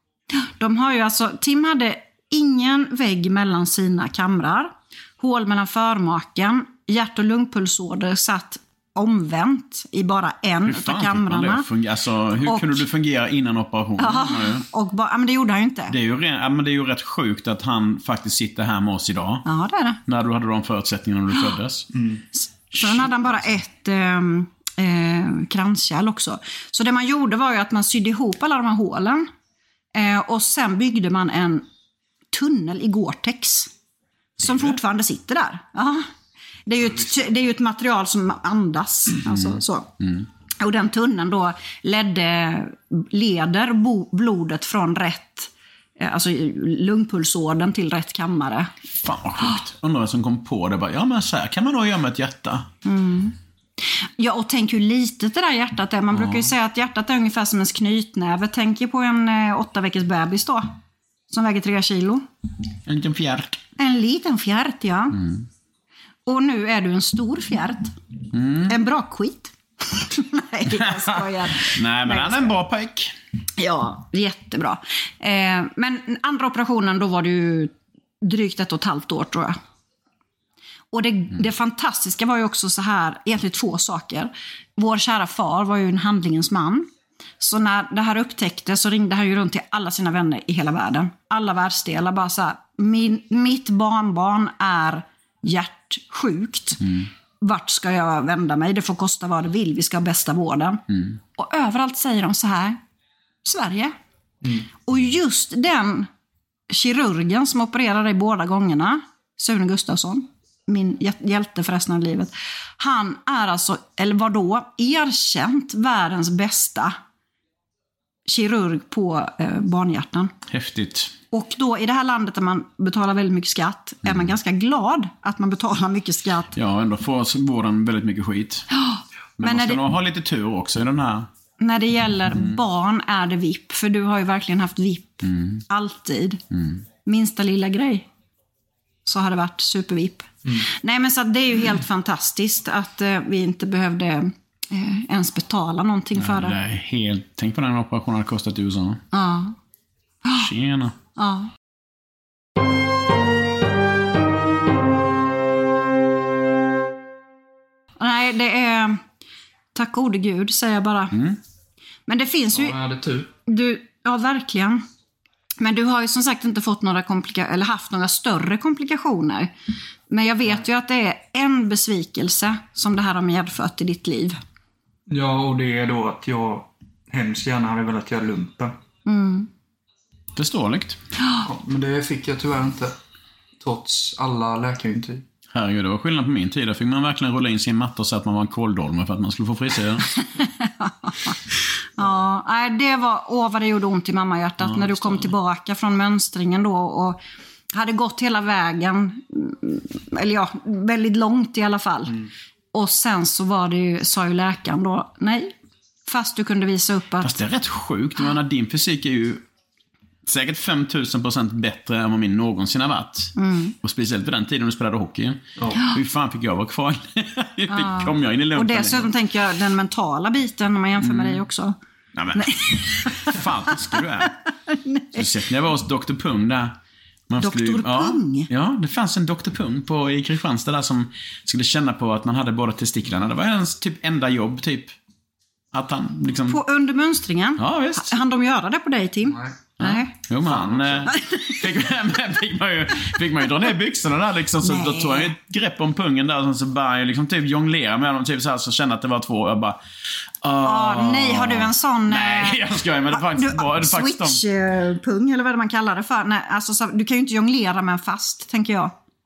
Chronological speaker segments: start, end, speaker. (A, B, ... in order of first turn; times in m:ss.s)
0:00.3-0:11.7 A
0:10.6-0:14.6 B
0:12.4-0:12.8 A
0:14.0-0:15.9 A
0:15.9-0:19.4 B
0:19.4-0:20.0 A
0:20.1-0:21.9 B
0:21.9-0:22.2 C
0:22.3-0:29.3 A
0:22.8-0:23.1 B
0:29.9-0:31.6 A
0:32.3-0:33.7 A
0:34.4-0:36.1 A
0:34.4-0:34.8 B
0:36.6-0:39.9 A
0:39.3-0:40.2 B
0:40.6-0:48.7 A
0:49.0-0:52.7 B
0:52.8-0:53.4 A
0:54.2-1:00.7 A
0:56.1-0:56.5 B
1:01.3-1:02.2 A
1:02.8-1:03.6 B
1:03.8-1:05.2 A
1:05.2-1:05.4 B
1:06.2-1:07.9 A
1:08.3-1:08.7 B
1:08.7-1:12.5 A
1:10.7-1:13.1 B
1:13.6-1:19.6 A
1:20.9-1:26.9 A
1:27.4-1:40.8 A
1:36.8-1:37.1 B
1:41.3-1:42.8 A
1:43.4-1:43.9 A
1:44.8-1:46.1 A
1:46.7-1:57.0 A
1:58.3-2:00.3 A
2:00.5-2:01.1 B
2:01.3-2:06.6 A
2:06.5-2:08.6 B
2:08.7-2:09.8 A
2:09.4-2:11.3 B
2:11.6-2:16.4 A
2:12.3-2:12.6 B
2:15.2-2:15.6 B
2:16.5-2:16.8 B
2:17.0-2:18.0 A
2:19.0-2:26.6 A
2:26.2-2:29.0 B
2:29.1-2:29.6 A
2:30.3-2:30.9 B
2:31.2-2:31.5 A
2:38.0-2:39.0 A
2:39.7-2:41.2 A
2:41.1-2:41.4 B
2:42.1-2:42.8 A
2:42.5-2:43.3 C
2:43.4-2:44.8 A
2:45.6-2:49.5 A
2:50.1-2:54.4 A
2:55.1-2:58.7 C
2:59.0-2:59.5 A
3:00.3-3:01.0 B
3:01.4-3:03.0 C
3:03.6-3:05.2 C
3:05.5-3:10.1 B
3:10.2-3:11.4 A
3:12.0-3:17.2 A
3:14.6-3:15.3 B
3:17.7-3:22.2 A
3:22.7-3:25.5 A
3:26.0-3:27.4 A
3:27.2-3:29.4 B
3:30.2-3:39.1 B
3:33.4-3:33.7 A
3:35.6-3:35.8 C
3:37.7-3:41.8 A
3:41.0-3:41.4 B
3:42.1-3:44.3 B
3:42.3-3:45.2 A
3:45.1-3:46.7 B
3:47.3-3:54.9 B
3:47.4-3:48.5 A
3:55.7-3:56.6 B
3:56.5-4:00.1 A
3:57.6-3:58.1 B
3:59.3-3:59.6 C
3:59.8-4:09.8 B
4:00.4-4:01.1 C
4:01.1-4:01.6 A
4:04.6-4:05.3 A
4:10.4-4:14.4 B
4:10.6-4:18.9 A